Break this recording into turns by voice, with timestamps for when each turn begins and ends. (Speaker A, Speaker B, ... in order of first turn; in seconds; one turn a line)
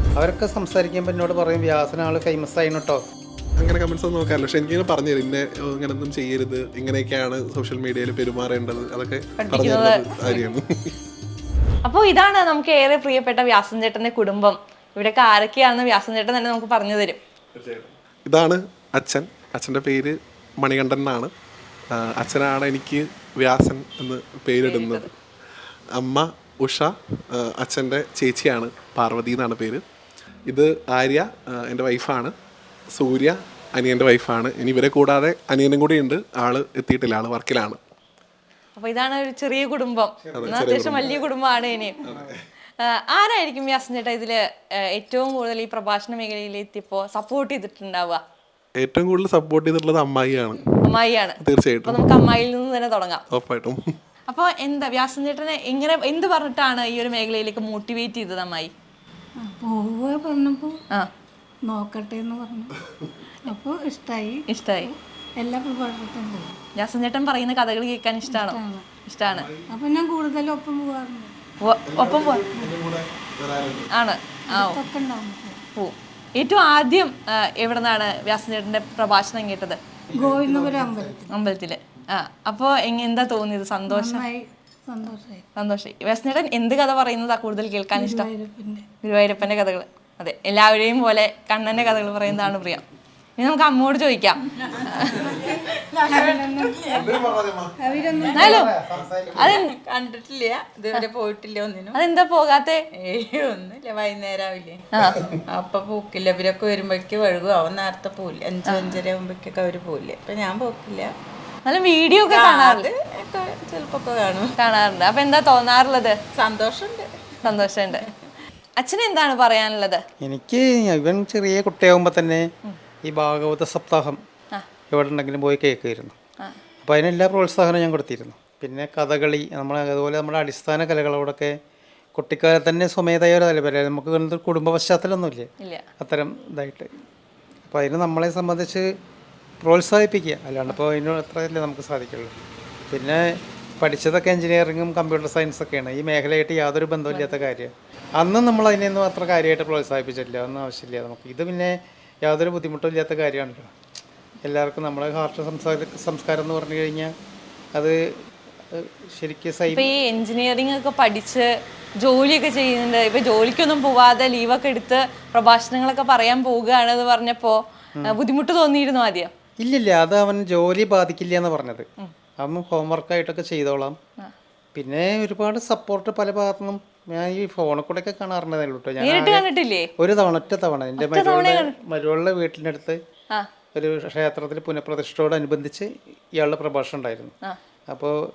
Speaker A: 0.1-3.0
Speaker B: 3.6-10.9
Speaker C: 9.4-10.4
Speaker C: 11.8-17.2
Speaker B: 17.5-21.3
Speaker B: 21.9-25.1
Speaker C: 24.6-25.1
Speaker B: 26.0-29.8
Speaker B: 30.5-32.3
Speaker B: 32.9-37.8
Speaker C: 38.8-42.0
Speaker A: 40.2-41.3
Speaker B: 40.4-41.1
Speaker A: 42.0-42.3
Speaker B: 42.0-42.3
Speaker C: 42.8-44.4
Speaker C: 44.9-48.2
Speaker B: 48.8-50.8
Speaker C: 50.8-53.2
Speaker B: 51.4-52.2
Speaker B: 53.3-53.8
Speaker C: 54.3-58.7
Speaker D: 59.4-60.8
Speaker D: 61.7-62.7
Speaker D: 63.4-66.5
Speaker C: 64.5-64.9
Speaker C: 66.8-69.5
Speaker D: 68.2-68.9
Speaker B: 69.3-69.7
Speaker D: 69.7-71.3
Speaker C: 71.6-72.5
Speaker B: 71.9-73.9
Speaker C: 73.9-74.8
Speaker D: 74.5-75.6
Speaker C: 75.8-79.8
Speaker A: 80.1-81.3
Speaker D: 80.1-81.3
Speaker C: 81.3-84.3
Speaker D: 83.9-85.4
Speaker C: 85.6-88.3
Speaker D: 87.9-88.8
Speaker C: 89.0-92.8
Speaker C: 93.4-95.3
Speaker E: 94.5-98.5
Speaker D: 95.2-97.1
Speaker B: 96.9-97.8
Speaker D: 97.8-98.7
Speaker C: 98.3-98.7
Speaker A: 98.3-99.6
Speaker C: 99.3-99.7
Speaker E: 99.4-102.0
Speaker C: 101.9-102.8
Speaker E: 103.0-104.8
Speaker E: 105.5-111.1
Speaker C: 108.6-109.0
Speaker C: 111.6-112.9
Speaker E: 112.1-114.5
Speaker C: 114.6-116.2
Speaker E: 116.3-118.1
Speaker C: 117.4-118.0
Speaker C: 118.8-120.0
Speaker A: 120.2-122.5
Speaker A: 123.0-124.2
Speaker A: 124.9-126.1
Speaker A: 126.8-131.6
Speaker A: 132.2-135.5
Speaker A: 136.0-136.9
Speaker A: 137.7-138.9
Speaker A: 139.6-142.3
Speaker A: 142.9-153.7
Speaker C: 147.1-147.4
Speaker A: 154.4-157.1
Speaker A: 158.7-159.9
Speaker C: 159.7-161.5
Speaker C: 162.0-169.3
Speaker A: 169.6-171.8
Speaker A: 172.4-173.9
Speaker A: 174.7-179.5
Speaker C: 179.0-179.9
Speaker A: 180.0-183.0
Speaker C: 181.0-181.7
Speaker A: 183.7-187.3
Speaker A: 187.9-188.2